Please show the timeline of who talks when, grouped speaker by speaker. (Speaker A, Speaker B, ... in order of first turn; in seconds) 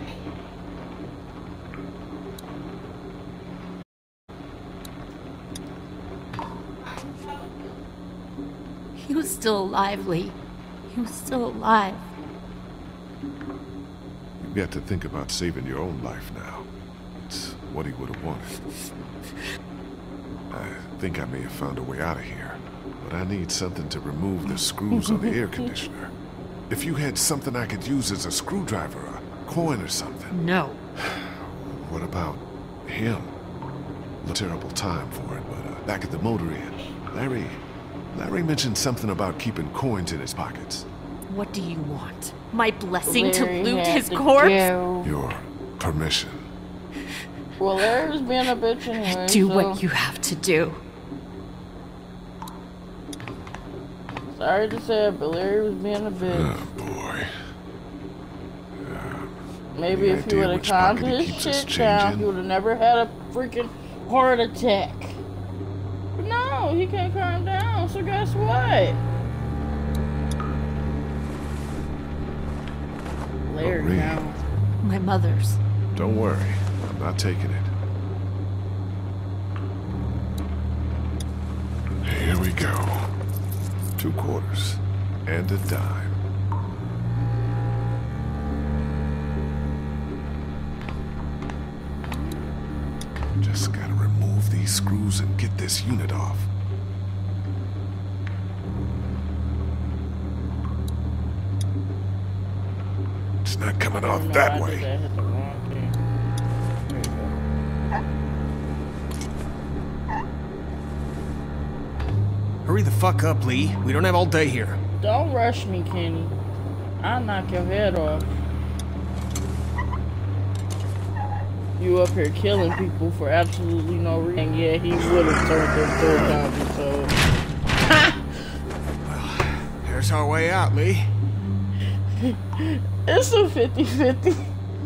Speaker A: 9.0-10.3, 10.9-12.1, 30.3-30.8, 41.3-44.7, 49.0-50.8, 74.8-75.6
Speaker B: 14.4-16.7, 17.2-18.7, 20.5-26.1, 26.7-30.3, 31.0-33.3, 34.2-37.6, 38.1-40.9, 45.0-46.5, 56.3-57.3, 58.8-59.3, 59.8-62.3, 73.6-74.2, 75.9-77.7, 82.0-83.1, 84.0-86.2, 93.4-96.5, 103.4-104.9
Speaker C: 25.0-25.3, 43.0-45.1, 47.6-49.8, 54.3-56.7, 59.8-65.2, 66.2-69.0, 73.5-74.4, 103.9-106.0, 106.6-107.3, 115.0-116.4, 117.0-118.3, 121.8-127.1, 132.2-134.5
Speaker D: 112.7-114.8, 129.1-131.1